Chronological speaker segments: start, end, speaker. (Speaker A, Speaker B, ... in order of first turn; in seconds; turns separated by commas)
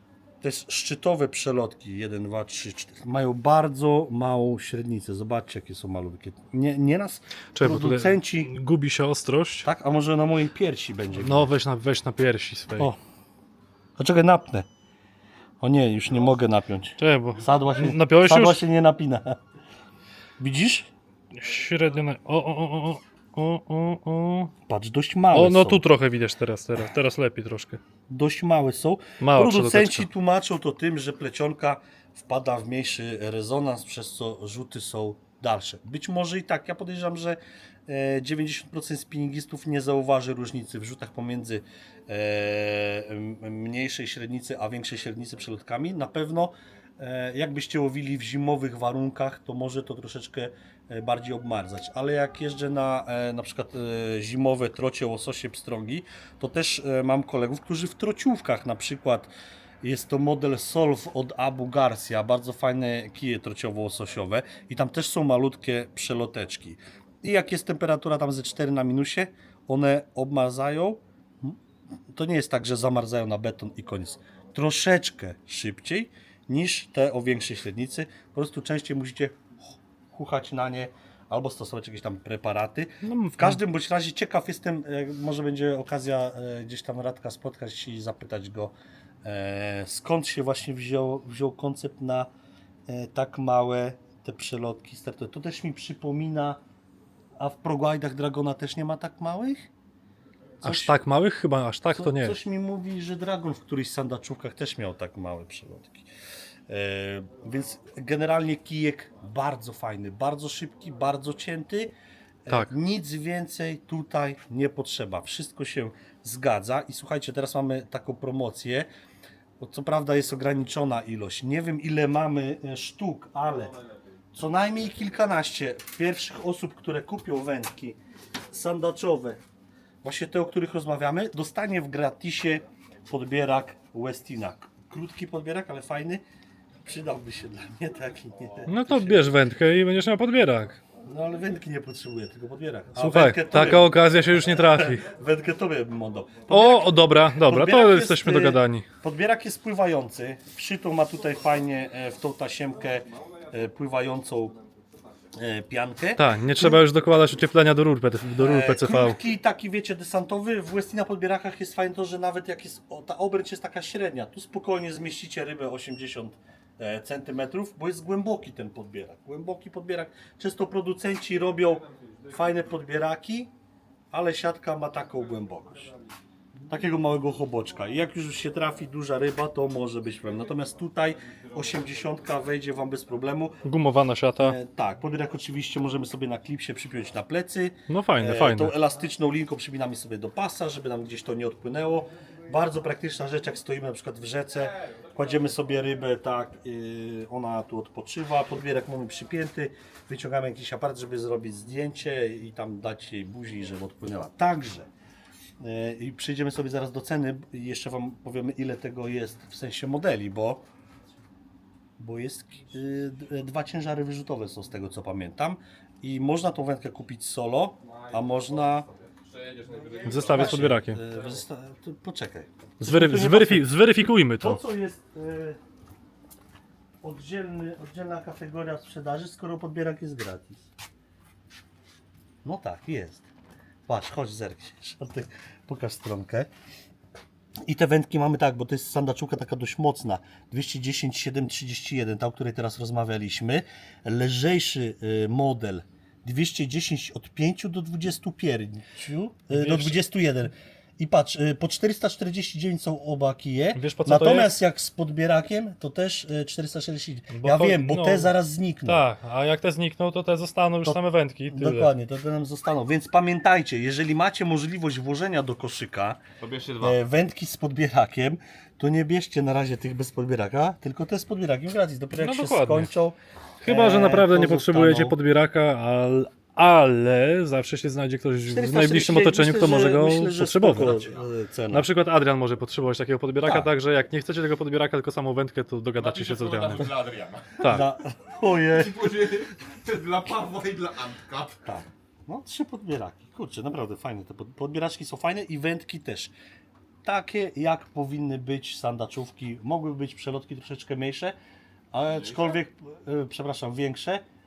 Speaker A: 0.4-8.5, Speaker B: 7.5-9.7, Speaker A: 9.6-11.5, Speaker B: 11.2-12.9, Speaker A: 14.0-14.7, Speaker A: 15.6-19.4, Speaker B: 17.0-18.6, Speaker A: 20.4-20.9, Speaker B: 21.3-24.5, Speaker A: 24.7-25.8, Speaker B: 25.3-27.8, Speaker A: 28.1-71.6, Speaker B: 29.2-30.1, Speaker A: 72.1-79.4, Speaker A: 80.1-88.7, Speaker B: 83.0-83.6, Speaker A: 89.2-92.3, Speaker A: 92.9-96.6, Speaker A: 97.4-99.7, Speaker A: 100.6-101.0, Speaker B: 100.6-102.4, Speaker A: 101.9-106.1, Speaker A: 106.7-111.9, Speaker A: 112.5-118.9, Speaker A: 119.6-123.7, Speaker A: 124.3-128.0, Speaker A: 128.5-129.4, Speaker A: 130.0-136.2, Speaker A: 136.8-139.3, Speaker B: 138.7-140.8, Speaker A: 141.1-154.6, Speaker B: 143.0-145.1, Speaker B: 146.5-148.9, Speaker A: 155.3-156.8, Speaker B: 156.2-159.2, Speaker A: 158.4-173.5, Speaker A: 174.1-175.9, Speaker A: 176.7-183.6, Speaker B: 183.6-184.6, Speaker A: 184.4-204.9, Speaker B: 187.9-188.7, Speaker A: 205.6-210.7, Speaker A: 212.0-218.9, Speaker C: 218.9-221.3, Speaker A: 220.0-223.7, Speaker B: 220.1-221.0, Speaker B: 222.8-224.6, Speaker A: 224.4-225.6, Speaker A: 227.0-230.7, Speaker A: 232.4-233.3, Speaker A: 233.9-236.5, Speaker A: 237.7-259.1, Speaker B: 249.5-250.0, Speaker B: 253.8-254.5, Speaker B: 257.3-258.3, Speaker B: 258.9-261.9, Speaker A: 261.5-266.2, Speaker C: 266.4-267.0, Speaker A: 266.8-275.1, Speaker B: 272.2-272.9, Speaker B: 273.6-281.1, Speaker A: 278.5-281.9, Speaker B: 281.7-286.9, Speaker A: 283.4-283.7, Speaker C: 286.0-287.6, Speaker B: 287.6-287.8, Speaker A: 287.6-289.1, Speaker C: 288.7-291.6, Speaker A: 291.6-296.3, Speaker A: 297.0-301.4, Speaker A: 301.9-304.2